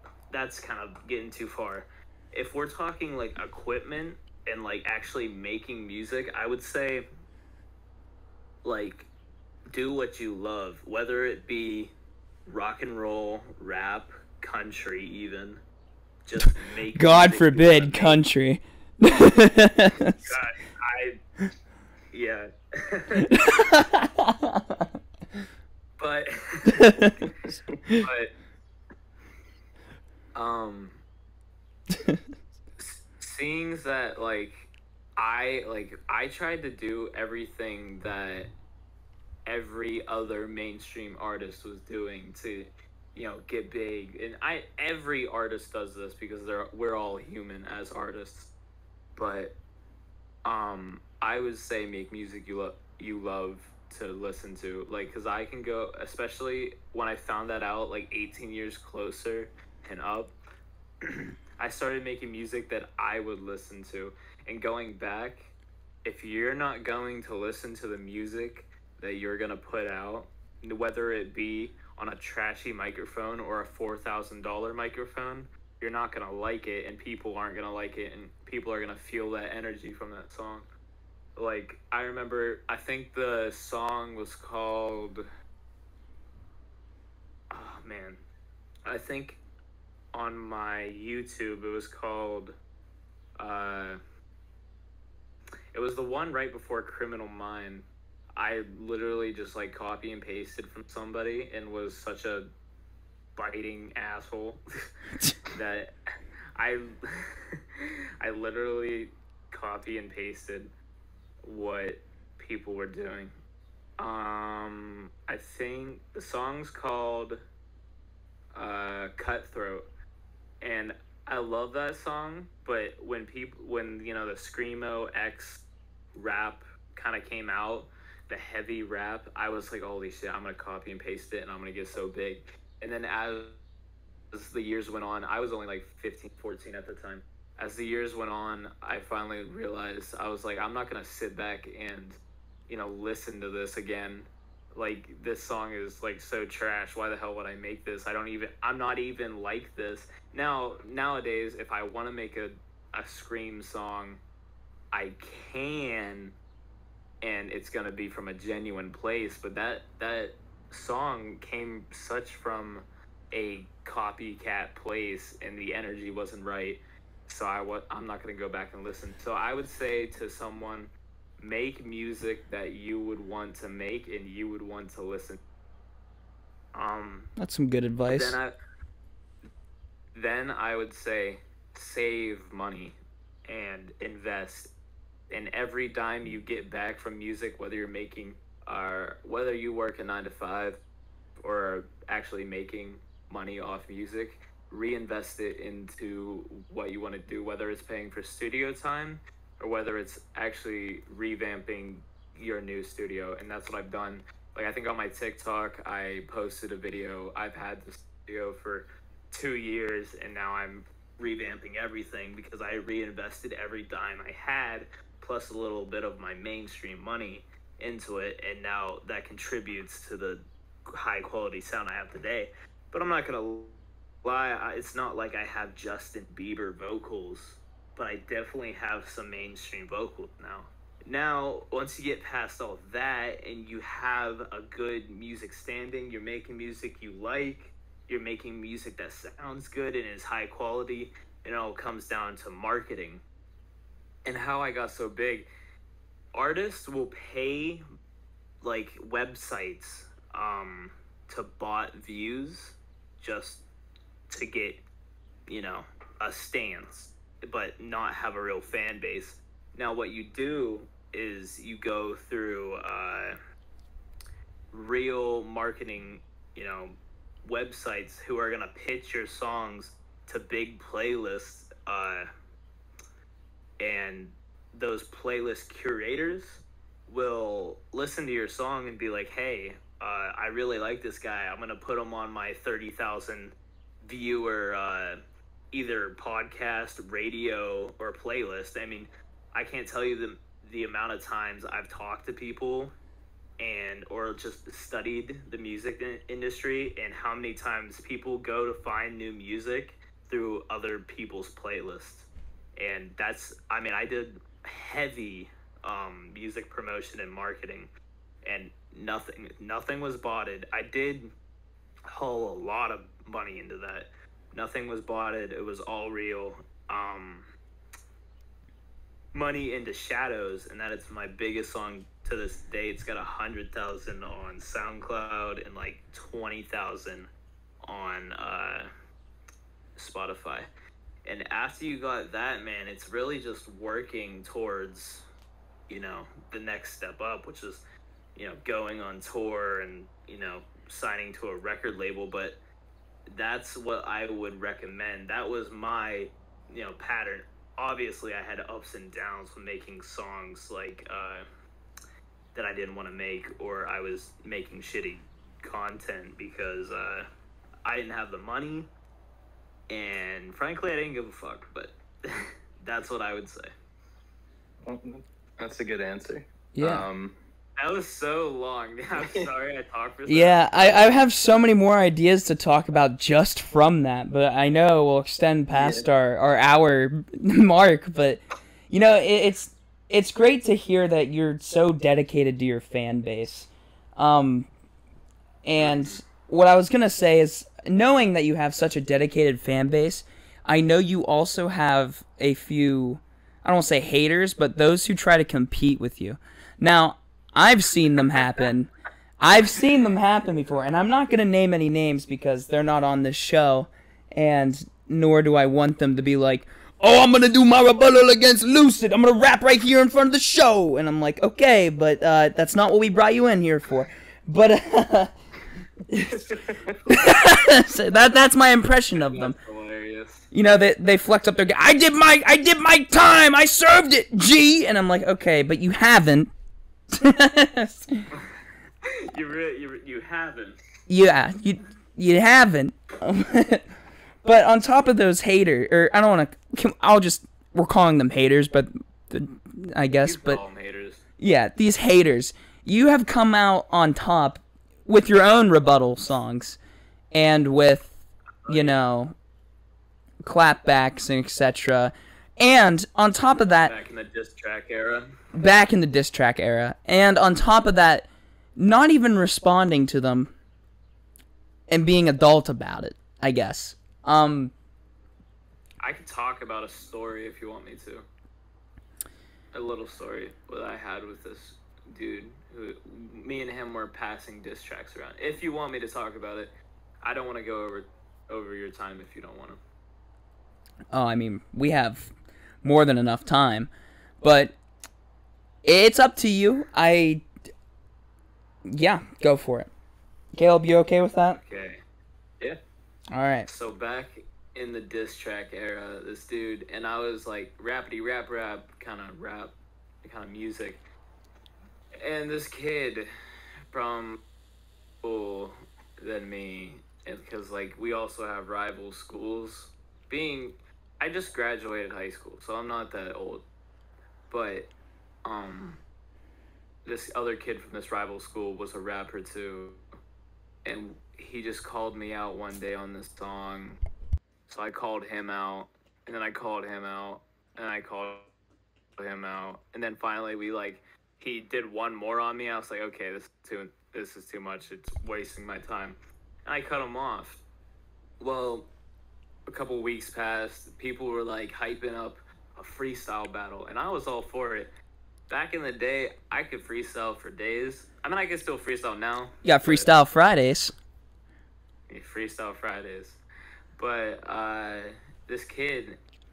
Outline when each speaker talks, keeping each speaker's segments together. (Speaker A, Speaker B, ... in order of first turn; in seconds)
Speaker A: 0.3-7.1, 8.6-9.1, 9.7-11.9, 12.5-15.6, 16.2-18.2, 20.2-21.2, 22.1-23.5, 26.0-27.1, 28.0-28.3, 30.4-31.0, 32.8-38.5, 39.5-48.5, 49.1-49.6, 50.4-60.3, 61.0-65.5, 66.0-80.7, 81.4-85.2, 87.5-88.2, 88.9-89.4, 90.1-92.6, 93.4-94.0, 95.7-102.5, 103.4-104.6, 105.5-105.9, 106.6-110.7, 111.4-113.3, 114.0-117.4, 118.5-119.8, 120.6-133.6, 134.3-154.2, 154.9-156.4, 157.2-175.4, 176.7-177.3, 178.1-178.6, 180.1-182.9, 183.5-184.7, 185.3-190.8, 191.4-243.2, 244.2-245.5, 246.3-247.8, 248.6-253.6, 254.3-254.8, 255.5-263.4, 264.7-272.3, 273.8-285.2, 285.7-292.9, 293.6-307.9, 308.4-311.3, 312.1-317.4, 319.3-327.3, 327.8-328.9, 329.9-330.7, 331.2-335.3, 335.9-337.8, 338.4-342.6, 343.3-351.4, 352.5-357.3, 357.9-358.9, 359.9-363.7, 367.8-371.1, 419.2-420.5, 429.1-430.8, 440.2-441.2, 448.6-449.0, 453.9-455.4, 466.0-468.3, 469.7-479.8, 491.6-492.0, 493.7-501.1, 502.2-503.3, 503.9-504.4, 505.2-513.6, 514.5-514.9, 515.4-516.0, 517.0-520.0, 520.9-524.0, 524.7-528.5, 529.2-537.6, 538.4-538.9, 539.6-544.9, 545.5-550.1, 552.1-553.4, 554.0-556.2
Speaker B: 16.9-20.4, 23.3-24.9, 26.7-27.1, 177.4-178.4, 366.8-367.1, 370.3-384.7, 385.6-415.3, 416.1-419.6, 420.5-426.5, 427.1-428.3, 431.1-433.9, 434.4-440.6, 441.4-446.8, 447.3-448.1, 448.7-449.4, 450.4-453.9, 455.5-460.5, 461.9-464.7, 481.1-482.3, 482.8-483.9, 484.4-484.8, 485.8-487.4, 488.9-489.9, 490.5-491.6, 493.3-493.7, 549.6-550.9
Speaker C: 364.9-367.4, 375.7-376.1